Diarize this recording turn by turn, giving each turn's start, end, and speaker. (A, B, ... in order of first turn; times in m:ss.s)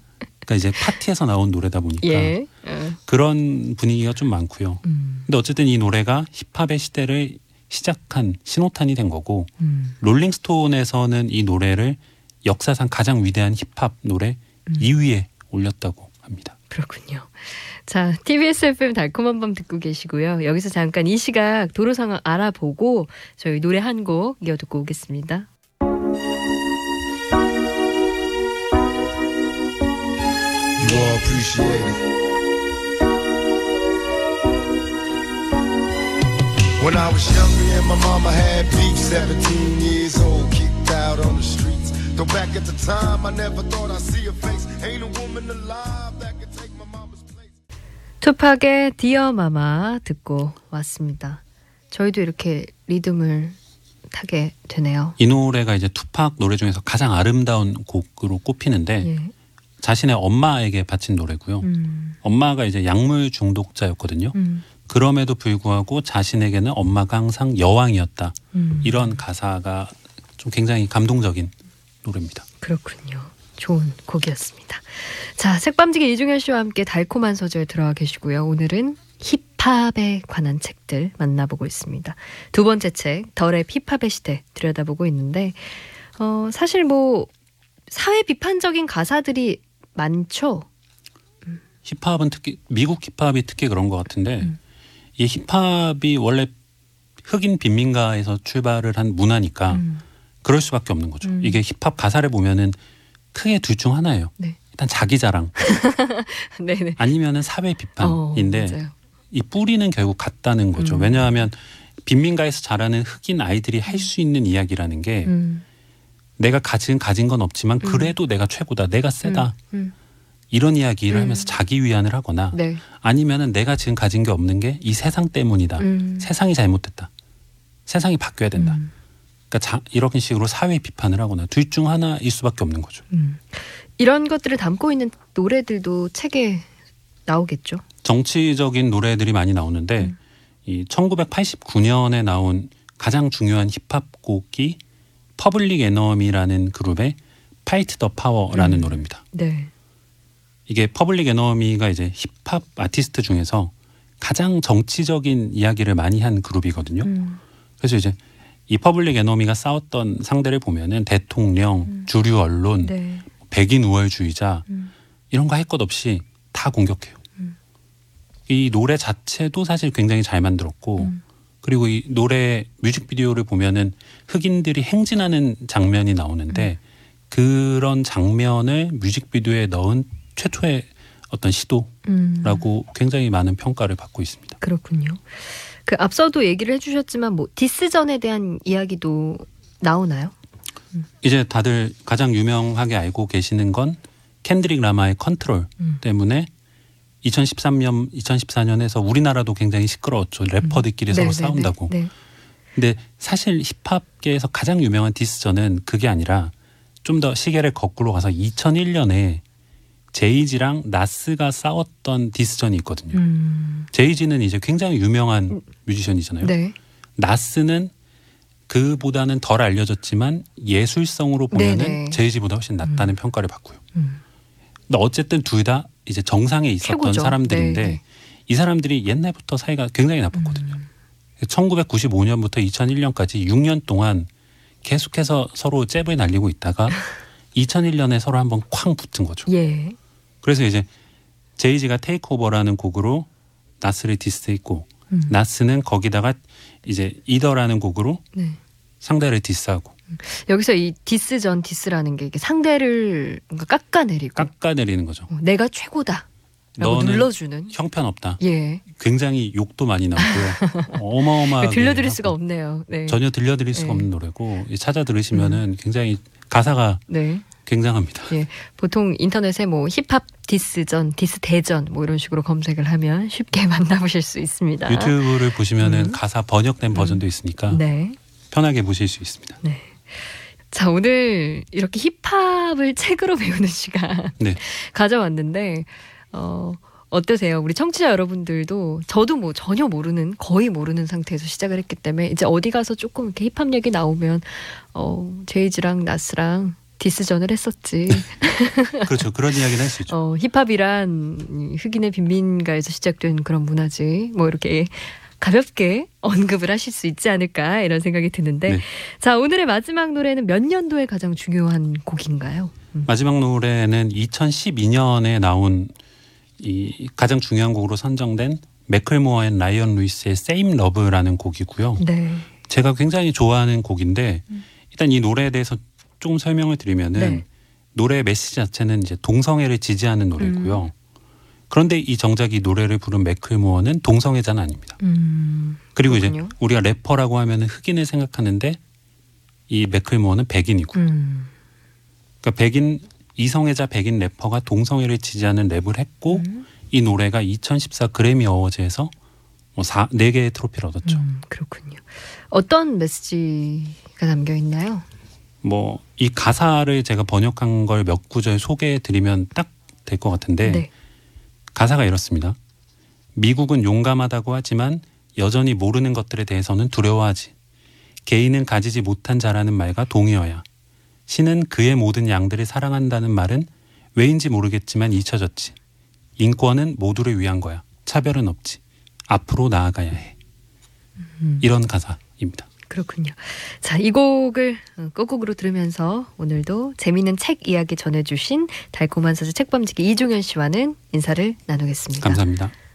0:00.5-0:02.4 A
0:02.0-0:03.0 B
0:03.1-0:16.6 A
0:04.8-0:05.3 B
0:09.6-0:10.0 B
0:16.7-0:25.5 B
0:30.8-0:32.0 C
0:36.8-0:47.6 C
0:48.2-0:53.6 B
0:54.1-0:55.2 B
0:55.2-0:59.1 A
0:59.0-0:59.3 B
0:59.8-1:01.7 A
1:01.6-1:02.2 B
1:02.2-1:12.5 A
1:04.3-1:04.7 B
1:08.5-1:09.2 B
1:12.6-1:27.3 B
1:27.9-1:30.7 B
1:31.8-1:34.6 A
1:35.2-1:36.5 A
1:37.2-1:39.8 A
1:39.7-1:40.0 B
1:40.4-1:42.8 A
1:41.2-1:41.6 B
1:43.3-1:45.6 A
1:45.6-1:47.0 B
1:47.0-1:48.8 A
1:48.0-1:48.9 B
1:49.3-1:55.3 A
1:50.8-1:51.3 B
1:55.3-1:55.6 B
1:56.4-1:59.6 A
1:57.8-1:58.2 B
1:59.2-1:59.9 B
2:00.5-2:07.1 A
2:01.1-2:01.5 B
2:02.5-2:02.8 B
2:05.8-2:06.3 B
2:07.9-2:08.8 A
2:08.6-2:08.9 B
2:09.5-2:13.0 A
2:13.1-2:16.7 B
2:17.3-2:17.8 B
2:18.0-2:24.8 A
2:25.4-2:29.2 A
2:28.5-2:29.7 B
2:30.7-2:37.1 A
2:37.0-2:37.4 B
2:37.8-2:44.7 A
2:42.8-2:43.3 B
2:45.3-2:47.2 A
2:48.5-3:04.6 A
3:02.0-3:02.6 B
3:04.6-3:10.3 B
3:11.2-3:16.5 A
3:17.2-3:22.0 A
3:20.6-3:22.1 B
3:22.8-3:26.5 A
3:27.0-3:29.4 A
3:30.1-3:33.2 A
3:33.1-3:33.9 B
3:33.9-3:36.5 A
3:36.4-3:36.8 B
3:37.2-3:37.9 A
3:38.7-3:43.8 A
3:41.5-3:42.2 B
3:42.8-3:43.1 B
3:44.0-3:44.2 B
3:44.9-3:50.8 A
3:46.8-3:48.0 B
3:50.3-3:50.9 B
3:51.4-3:54.3 A
3:54.8-3:59.5 A
3:59.5-4:00.0 B
4:00.4-4:00.9 A
4:01.6-4:03.3 A
4:03.8-4:08.2 A
4:08.3-4:08.6 B
4:09.0-4:10.0 A
4:10.1-4:14.5 B
4:14.4-4:15.3 A
4:15.3-4:16.3 B
4:16.8-4:22.4 A
4:16.8-4:17.8 B
4:18.4-4:18.8 B
4:20.2-4:23.2 B
4:23.1-4:27.0 A
4:23.7-4:24.1 B
4:25.3-4:25.6 B
4:27.1-4:27.5 B
4:27.6-4:28.4 A
4:28.3-4:36.2 B
4:34.9-4:37.8 A
4:36.9-4:38.2 B
4:38.5-4:39.6 A
4:39.6-4:59.1 B
4:59.0-5:00.1 A
5:00.1-5:13.1 B
5:13.1-5:16.0 A
5:16.6-5:22.0 A
5:22.0-5:22.5 B
5:22.6-5:30.9 A
5:27.2-5:27.4 B
5:30.4-5:30.8 B
5:31.7-5:35.0 A
5:35.0-5:36.5 B
5:36.0-5:38.8 A
5:39.7-5:41.0 A
5:41.0-5:41.5 B
5:42.4-5:49.1 A
5:46.3-5:46.6 B
5:49.8-5:51.2 A
5:51.1-5:55.1 B
5:55.6-6:00.9 A
6:00.6-6:00.9 B
6:01.7-6:02.6 A
6:03.4-6:07.6 A
6:08.2-6:10.6 A
6:11.3-6:15.8 A
6:16.4-6:20.4 A
6:21.4-6:21.7 B
6:21.6-6:22.7 A
6:22.9-6:32.4 B
6:32.2-6:32.7 A